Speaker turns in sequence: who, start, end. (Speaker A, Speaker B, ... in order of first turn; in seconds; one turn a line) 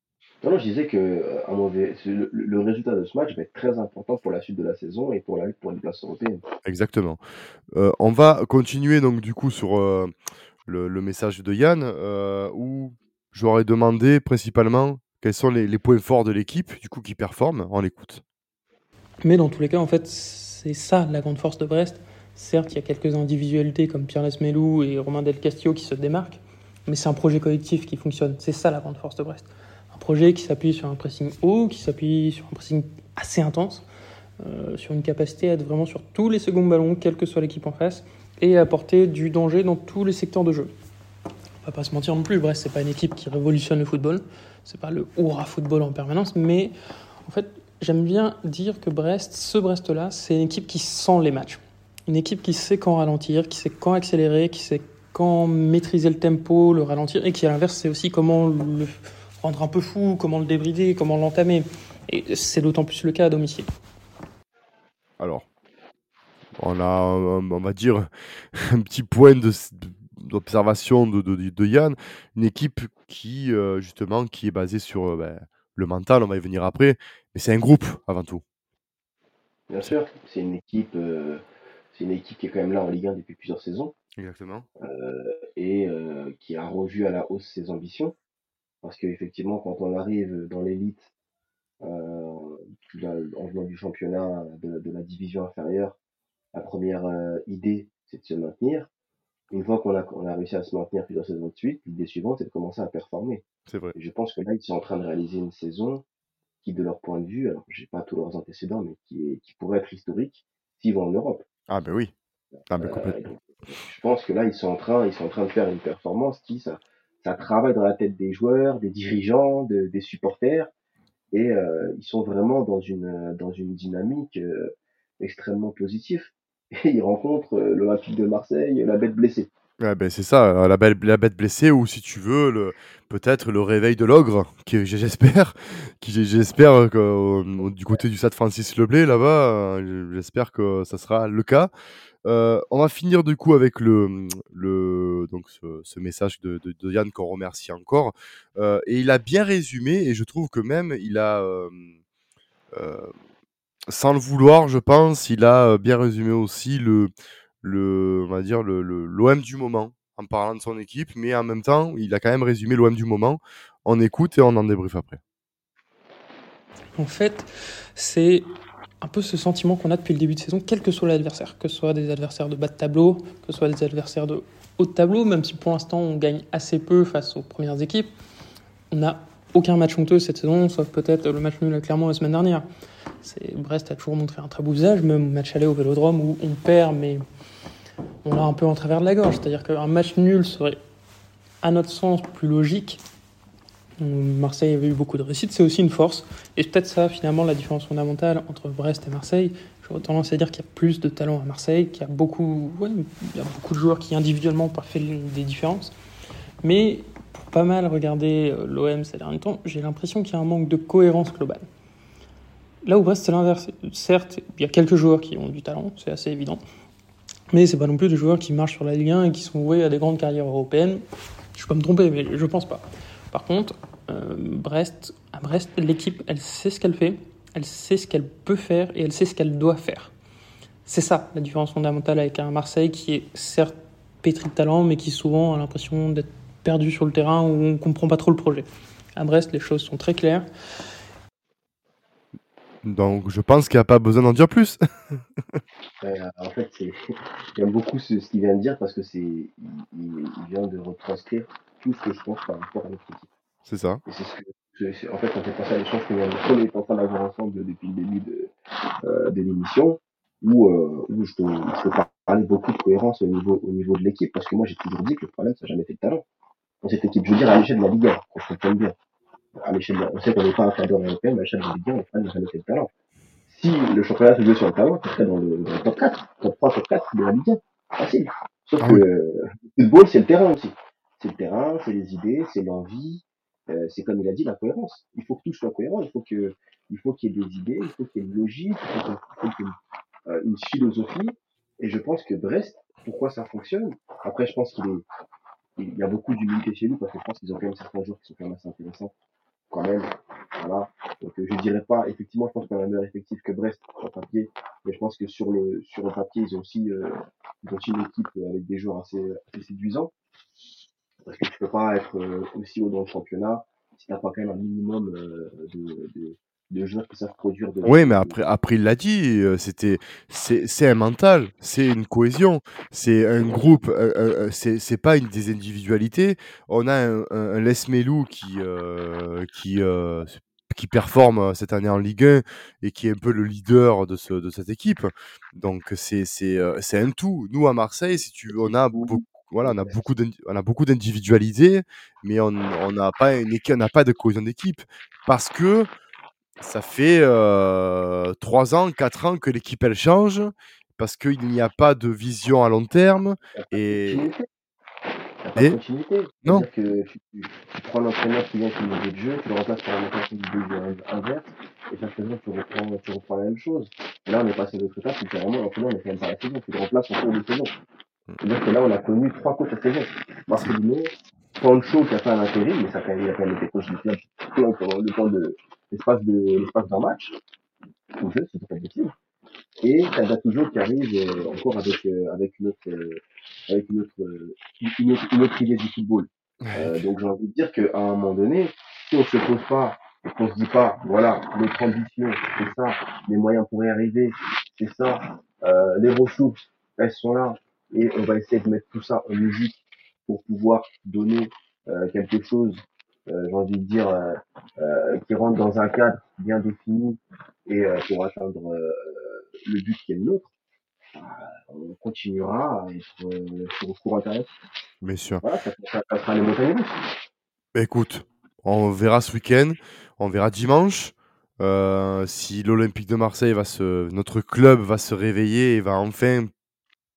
Speaker A: 0.4-6.4
Speaker B: 6.7-10.1
Speaker B: 10.7-18.2
Speaker C: 19.2-33.9
Speaker C: 34.4-40.7
Speaker C: 41.6-46.7
Speaker C: 47.2-63.7
Speaker B: 65.2-65.5
Speaker B: 66.6-78.4
Speaker A: 79.7-83.9
Speaker B: 84.2-84.7
Speaker A: 84.8-88.1
Speaker A: 88.8-91.1
Speaker A: 91.8-96.0
Speaker A: 96.5-98.9
Speaker A: 99.5-106.0
Speaker B: 103.7-103.9
Speaker A: 106.6-111.5
Speaker B: 111.7-112.1
Speaker B: 112.7-113.2
Speaker A: 112.8-120.7
Speaker A: 121.3-129.5
Speaker B: 129.8-141.7
Speaker B: 142.2-151.9
Speaker B: 152.7-153.1
Speaker B: 153.9-157.1
Speaker B: 157.6-165.2
Speaker C: 167.0-168.5
Speaker C: 169.0-178.1
Speaker C: 178.9-182.7
Speaker C: 183.2-187.2
Speaker C: 188.2-190.8
Speaker C: 191.6-193.0
Speaker C: 194.0-205.9
Speaker C: 206.6-211.7
Speaker C: 212.8-216.6
Speaker C: 217.5-221.0
Speaker C: 221.6-230.1
Speaker C: 230.9-240.5
Speaker B: 242.8-245.6
Speaker A: 246.0-247.0
Speaker A: 247.6-253.3
Speaker B: 253.7-254.0
Speaker A: 254.1-258.5
Speaker A: 259.0-266.2
Speaker A: 266.8-268.9
Speaker A: 269.6-272.9
Speaker A: 273.5-289.8
Speaker A: 290.3-295.1
Speaker A: 295.8-299.1
Speaker A: 299.7-310.1
Speaker A: 311.2-318.4
Speaker B: 317.9-345.9
Speaker A: 338.6-340.1
Speaker B: 346.6-354.3
Speaker A: 353.6-354.5
Speaker A: 355.4-367.7
Speaker A: 368.4-377.4
Speaker A: 378.2-379.1
Speaker A: 379.8-410.5
Speaker B: 386.6-387.0
Speaker A: 411.1-414.5
Speaker B: 415.0-415.4
Speaker A: 415.4-417.1
Speaker B: 417.8-426.5